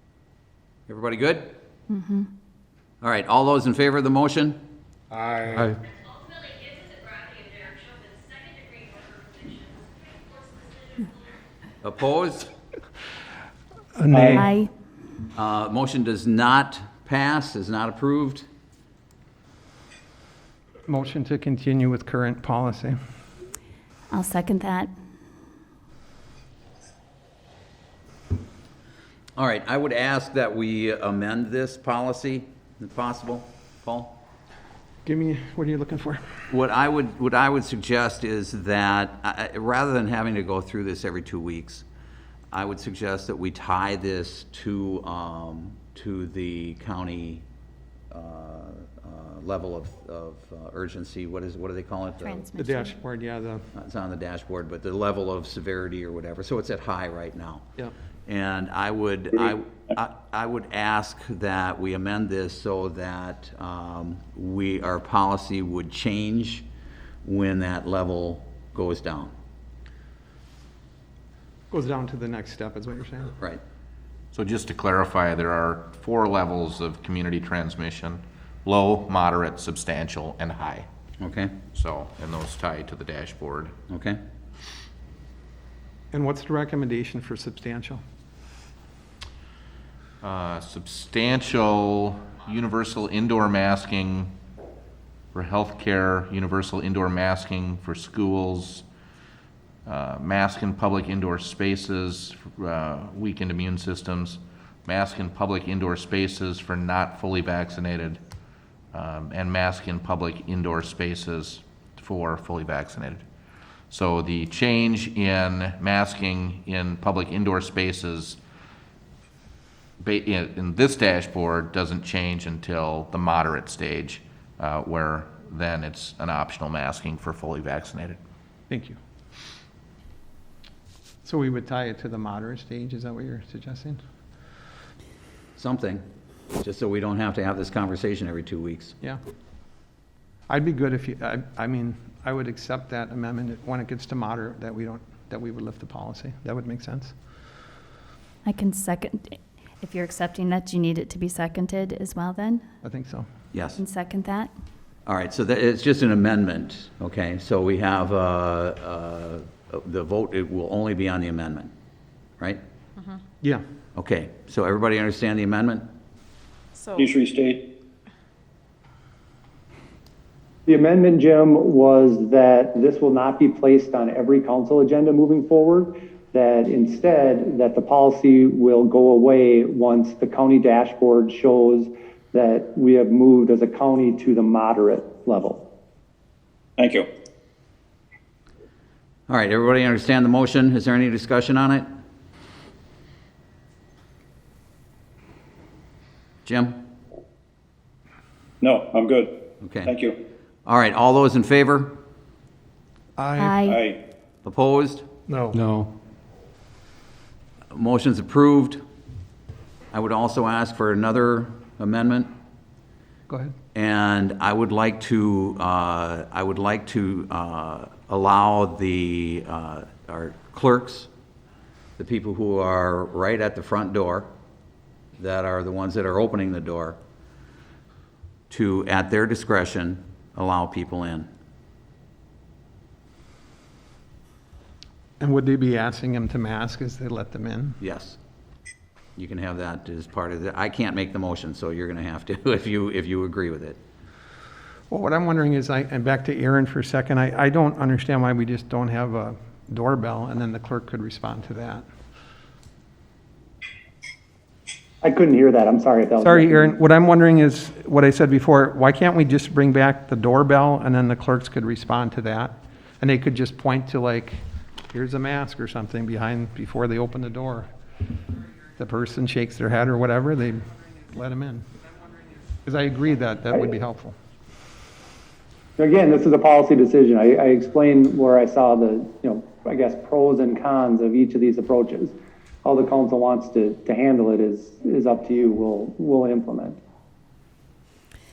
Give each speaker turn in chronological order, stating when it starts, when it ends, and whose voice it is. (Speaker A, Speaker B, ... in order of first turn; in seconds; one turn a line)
Speaker A: 0.9-1.5
Speaker B: 1.9-2.3
Speaker A: 3.0-4.6
Speaker C: 6.2-11.1
Speaker A: 11.8-12.5
Speaker D: 13.9-14.5
Speaker E: 14.1-14.4
Speaker B: 14.3-14.7
Speaker A: 15.3-18.4
Speaker D: 20.9-22.9
Speaker B: 24.1-24.9
Speaker A: 29.4-34.2
Speaker D: 35.0-36.2
Speaker A: 36.5-41.8
Speaker A: 42.5-47.4
Speaker A: 48.1-52.5
Speaker B: 52.2-53.0
Speaker D: 52.5-53.6
Speaker A: 53.7-57.7
Speaker A: 58.2-66.6
Speaker A: 67.2-69.3
Speaker D: 71.7-73.3
Speaker F: 74.3-80.8
Speaker A: 81.2-81.6
Speaker F: 81.7-83.8
Speaker A: 83.9-84.2
Speaker D: 86.1-88.0
Speaker F: 90.2-94.3
Speaker F: 95.3-98.8
Speaker F: 99.8-108.2
Speaker F: 108.9-113.2
Speaker F: 113.9-118.4
Speaker F: 120.0-128.2
Speaker D: 128.7-129.0
Speaker D: 131.2-134.0
Speaker A: 135.6-136.0
Speaker A: 136.6-138.9
Speaker D: 140.5-147.1
Speaker B: 148.4-152.6
Speaker D: 152.8-153.2
Speaker A: 153.5-153.8
Speaker B: 153.8-154.5
Speaker A: 155.1-161.7
Speaker A: 163.9-165.8
Speaker G: 166.9-167.6
Speaker E: 170.7-185.6
Speaker G: 186.8-187.1
Speaker A: 189.3-191.8
Speaker A: 196.4-196.8
Speaker G: 198.6-199.3
Speaker A: 199.6-199.9
Speaker G: 199.8-200.2
Speaker A: 200.7-201.9
Speaker D: 203.2-203.6
Speaker B: 203.4-203.8
Speaker G: 203.6-204.0
Speaker A: 204.4-205.1
Speaker D: 205.3-205.6
Speaker A: 207.7-208.8
Speaker A: 209.9-212.3
Speaker D: 213.3-213.5
Speaker A: 213.7-221.1
Speaker A: 222.0-224.3
Speaker A: 225.2-227.0
Speaker A: 228.5-231.3
Speaker D: 235.2-237.8
Speaker A: 237.8-238.2
Speaker A: 239.2-243.8
Speaker D: 244.9-251.8
Speaker E: 255.0-256.8
Speaker D: 256.2-267.7
Speaker D: 268.8-271.6
Speaker D: 272.6-274.1
Speaker E: 275.8-286.8